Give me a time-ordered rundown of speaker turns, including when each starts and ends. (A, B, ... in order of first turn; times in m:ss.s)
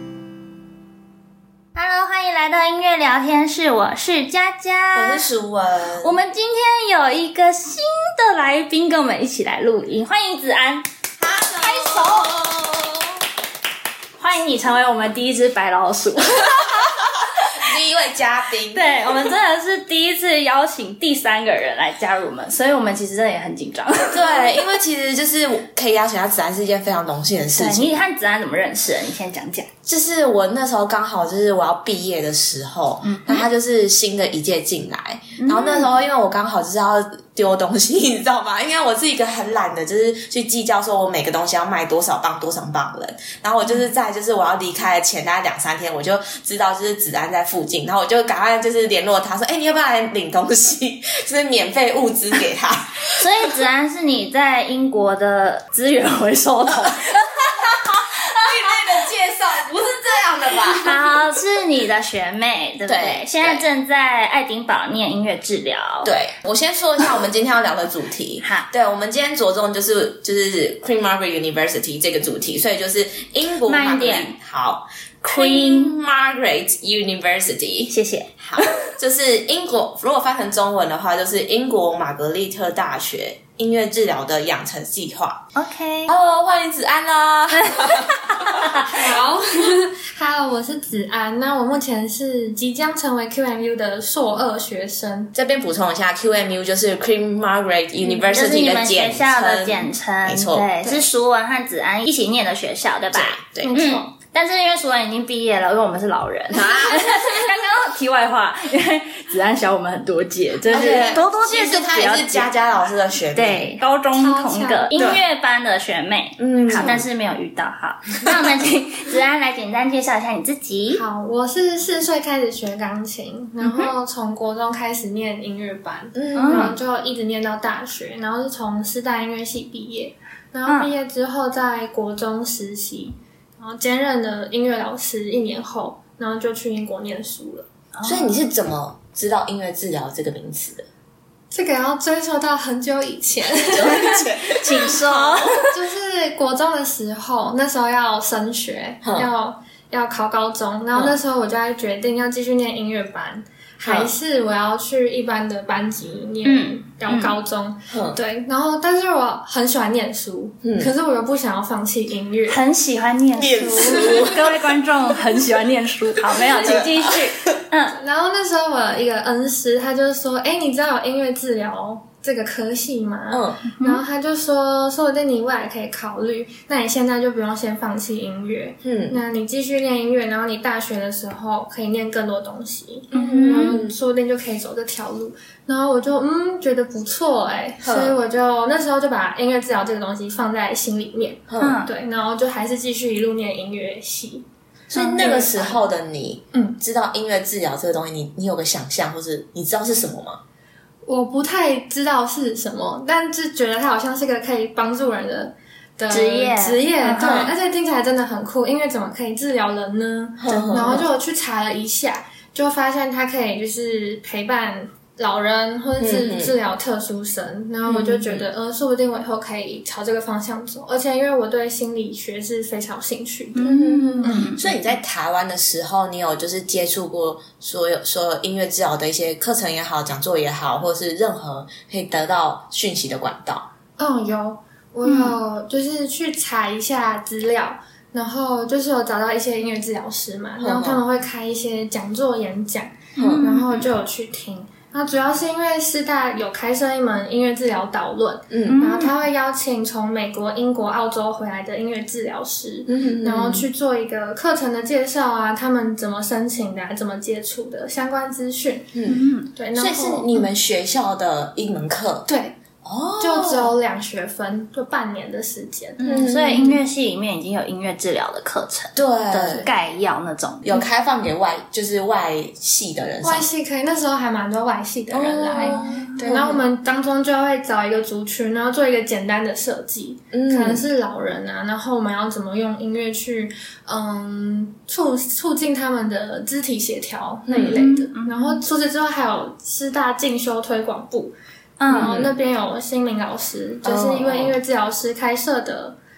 0:01.8-0:05.3 A
0:04.9-0:06.2 B
0:06.0-0:12.8 A
0:11.2-0:12.7 B
0:14.2-0:17.7 A
0:16.6-0:19.3 B
0:18.7-0:24.4 A
0:24.1-0:28.0 B
0:27.6-0:29.7 A
0:29.9-0:53.5 B
0:33.0-0:33.5 A
0:35.4-0:36.0 A
0:53.2-0:58.7 A
0:57.6-1:01.3 B
1:00.8-1:06.1 A
1:02.8-1:03.7 B
1:06.0-1:25.4 B
1:08.4-1:08.7 A
1:13.7-1:14.3 A
1:15.2-1:15.9 A
1:17.9-1:18.9 A
1:25.6-1:26.1 A
1:26.1-1:29.0 B
1:27.5-1:28.9 A
1:28.8-1:35.3 C
1:35.3-1:40.7 B
1:38.3-1:52.5 A
1:43.1-1:43.7 B
1:43.6-1:44.1 C
1:46.5-1:47.5 B
1:50.7-1:53.7 B
1:53.3-2:01.0 A
1:54.1-1:55.1 C
1:55.0-1:55.2 B
1:56.4-1:57.0 B
1:56.7-1:57.0 C
2:00.9-2:17.7 C
2:03.6-2:03.9 A
2:06.1-2:06.8 B
2:06.4-2:06.8 A
2:18.0-2:18.4 A
2:18.0-2:20.9 B
2:21.5-2:24.3 C
2:23.5-2:25.6 B
2:23.8-2:25.7 A
2:25.6-2:42.6 C
2:29.0-2:29.3 B
2:33.8-2:34.1 B
2:36.4-2:37.4 A
2:37.9-2:38.2 B
2:40.6-2:40.9 B
2:42.5-2:48.0 A
2:43.3-2:45.2 B
2:43.8-2:44.2 C
2:46.2-2:47.5 B
2:47.9-3:15.8 C
2:53.3-2:53.6 B
2:58.8-2:59.2 B
3:03.1-3:03.8 A
3:03.1-3:04.0 B
3:07.8-3:08.2 B
3:11.5-3:11.9 B
3:11.6-3:11.9 A
3:14.9-3:20.4 B
3:16.5-3:16.8 C
3:21.0-3:44.6 C
3:26.1-3:27.5 A
3:27.2-3:27.5 B
3:30.4-3:31.1 B
3:30.5-3:31.0 A
3:36.0-3:36.5 B
3:37.8-3:38.5 B
3:43.6-3:44.8 A
3:43.6-3:53.7 B
3:54.0-4:19.0 C
3:55.0-3:55.4 A
4:00.6-4:01.0 B
4:03.2-4:03.5 B
4:03.2-4:03.9 A
4:08.5-4:08.8 B
4:08.7-4:09.1 A
4:12.9-4:13.6 B
4:18.9-4:22.3 B
4:19.1-4:19.5 A
4:19.5-4:20.5 C
4:22.3-4:22.6 C
4:22.8-4:23.7 B
4:23.2-4:26.8 C
4:26.0-4:26.8 B
4:26.1-4:30.8 A
4:29.0-4:29.7 B
4:30.6-4:33.5 B
4:33.2-4:51.3 C
4:35.1-4:36.6 B
4:35.6-4:36.2 A
4:40.3-4:40.8 B
4:47.5-4:47.8 B
4:47.6-4:48.6 A
4:51.8-4:52.2 A
4:51.9-4:52.3 B
4:51.9-4:56.0 C
4:53.8-4:54.6 B